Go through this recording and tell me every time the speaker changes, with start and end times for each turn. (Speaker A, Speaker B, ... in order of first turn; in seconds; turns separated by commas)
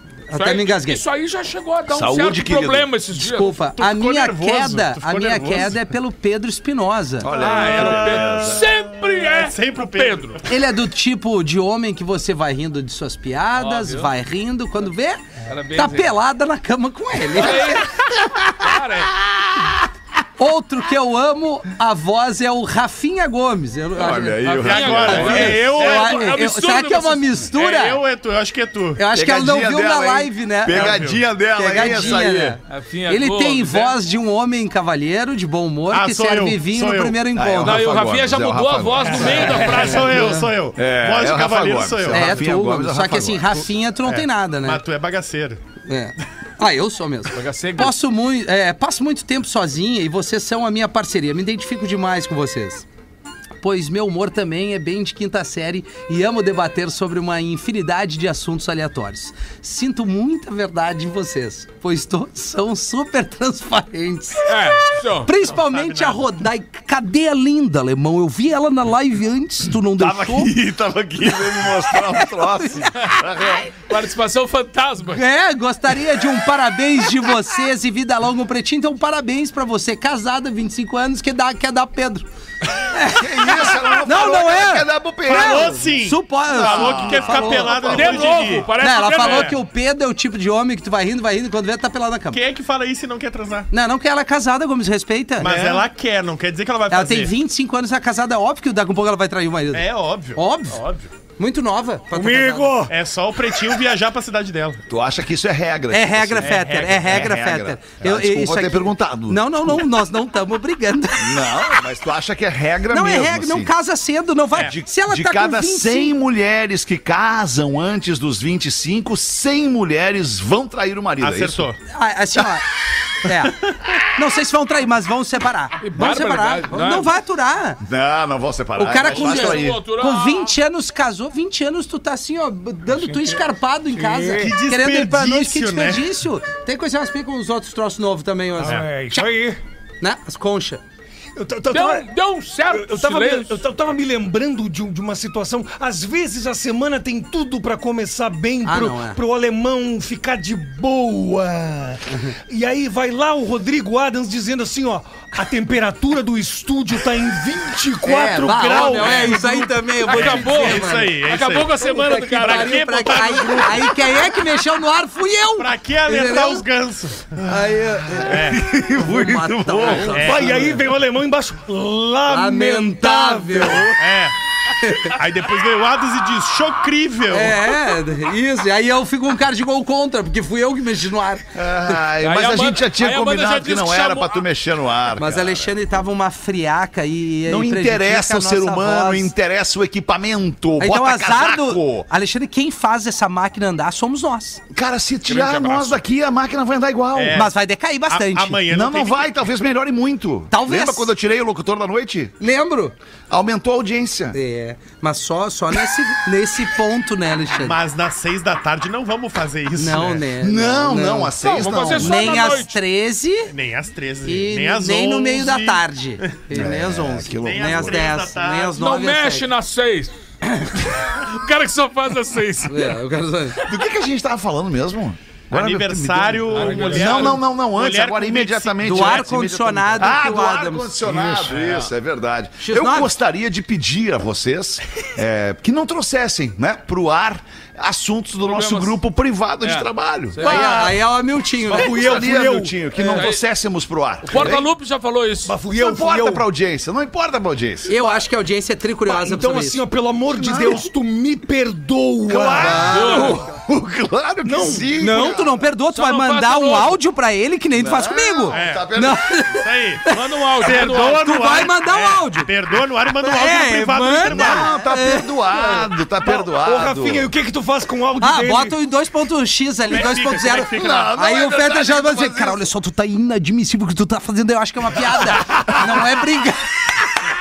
Speaker A: 0.3-1.0, Speaker B: 0.3-3.6, Speaker C: 1.9-2.9, Speaker A: 3.1-7.3, Speaker D: 3.7-5.9, Speaker C: 7.2-8.7, Speaker B: 7.3-10.4, Speaker D: 9.3-10.5, Speaker A: 10.5-15.2, Speaker B: 13.6-14.1, Speaker B: 15.4-16.1, Speaker A: 15.8-17.8, Speaker B: 17.3-17.9, Speaker B: 18.5-19.1, Speaker A: 20.4-24.5, Speaker C: 23.9-25.6, Speaker B: 24.4-27.4, Speaker D: 24.6-26.4, Speaker A: 25.1-28.0, Speaker D: 27.5-29.0, Speaker A: 29.0-37.8, Speaker C: 29.1-32.6, Speaker D: 30.7-31.2, Speaker B: 32.7-34.0, Speaker D: 35.9-37.2, Speaker C: 37.4-39.7, Speaker B: 37.6-40.4, Speaker D: 39.2-42.5, Speaker A: 39.9-40.5, Speaker C: 40.8-43.6, Speaker A: 42.1-44.8, Speaker D: 44.0-45.6, Speaker A: 45.9-52.9, Speaker B: 47.3-47.9, Speaker A: 53.6-64.5, Speaker B: 64.5-65.3, Speaker A: 65.2-70.5, Speaker D: 65.5-66.2, Speaker C: 70.0-73.7, Speaker A: 71.4-72.9, Speaker B: 73.0-75.2, Speaker A: 75.1-82.3, Speaker A: 82.8-92.4, Speaker C: 83.0-85.8, Speaker D: 85.3-89.5, Speaker C: 86.5-88.3, Speaker B: 87.9-89.5, Speaker D: 92.3-93.7, Speaker A: 93.7-95.6, Speaker D: 95.4-97.3, Speaker A: 96.9-100.8, Speaker D: 99.7-101.1, Speaker A: 101.4-102.8, Speaker E: 102.1-102.9, Speaker D: 102.9-104.8, Speaker C: 104.9-110.0, Speaker A: 105.9-111.5, Speaker D: 106.4-107.3, Speaker C: 111.2-113.7, Speaker A: 112.9-116.2, Speaker C: 114.5-121.7, Speaker D: 121.2-121.8, Speaker A: 121.9-122.7, Speaker A: 123.2-123.5, Speaker A: 124.1-127.8, Speaker B: 125.8-127.1, Speaker C: 127.8-129.8, Speaker A: 128.8-139.3, Speaker B: 129.1-130.5, Speaker E: 132.9-133.4, Speaker E: 133.9-134.6, Speaker D: 134.4-136.1, Speaker E: 138.6-139.6, Speaker A: 140.0-140.8, Speaker E: 141.4-142.1, Speaker B: 141.7-143.6, Speaker E: 142.7-159.8, Speaker A: 148.6-149.2, Speaker A: 152.1-152.3, Speaker A: 158.0-161.1, Speaker D: 159.0-159.4, Speaker D: 160.0-164.4, Speaker B: 160.1-163.1, Speaker A: 161.9-166.7, Speaker D: 165.6-167.4, Speaker A: 167.4-168.4, Speaker C: 168.2-170.4, Speaker D: 168.2-168.6, Speaker A: 169.0-170.8, Speaker D: 169.9-170.7, Speaker E: 170.2-174.0, Speaker A: 172.3-173.9, Speaker D: 174.0-174.3, Speaker A: 174.8-175.2, Speaker D: 175.1-177.8, Speaker A: 177.3-182.0, Speaker C: 181.6-185.7, Speaker B: 182.2-184.4, Speaker A: 185.2-189.3, Speaker C: 187.5-192.1, Speaker A: 190.8-194.6, Speaker C: 194.7-197.5, Speaker B: 195.3-196.0, Speaker D: 197.1-197.5, Speaker A: 197.3-198.6, Speaker D: 198.1-199.3, Speaker C: 198.7-202.3, Speaker A: 200.5-201.1, Speaker A: 202.4-202.9, Speaker C: 203.3-204.4, Speaker A: 204.3-207.8, Speaker D: 207.6-210.3, Speaker A: 209.8-213.5, Speaker C: 210.4-212.4, Speaker B: 211.4-212.8, Speaker D: 213.5-216.6, Speaker A: 214.2-219.5, Speaker C: 216.5-218.1, Speaker D: 217.4-218.8, Speaker B: 218.8-220.1, Speaker A: 220.4-220.7, Speaker B: 220.9-223.0, Speaker A: 222.7-223.6, Speaker C: 223.7-241.0, Speaker D: 225.5-229.3, Speaker B: 226.5-227.4, Speaker A: 228.8-231.0, Speaker E: 231.1-231.5, Speaker B: 231.5-231.9, Speaker A: 232.6-233.1, Speaker B: 238.4-239.0, Speaker B: 239.6-240.7, Speaker A: 240.4-242.2, Speaker C: 241.7-244.7, Speaker E: 241.7-242.7, Speaker B: 243.1-243.4, Speaker B: 244.2-245.5, Speaker E: 245.5-246.4, Speaker C: 245.7-247.9, Speaker A: 247.9-249.8, Speaker E: 249.1-253.2, Speaker C: 250.3-250.9, Speaker C: 252.3-255.7, Speaker A: 252.6-253.4, Speaker B: 252.9-253.4, Speaker E: 254.4-254.9, Speaker A: 255.0-262.5, Speaker B: 255.9-257.0, Speaker C: 257.8-259.4, Speaker D: 258.5-258.9, Speaker D: 259.5-264.7, Speaker B: 260.1-261.2, Speaker A: 263.2-265.6, Speaker C: 264.2-267.3, Speaker E: 266.2-268.8, Speaker A: 268.2-276.7, Speaker D: 269.9-271.1, Speaker C: 270.7-272.7, Speaker C: 275.3-275.9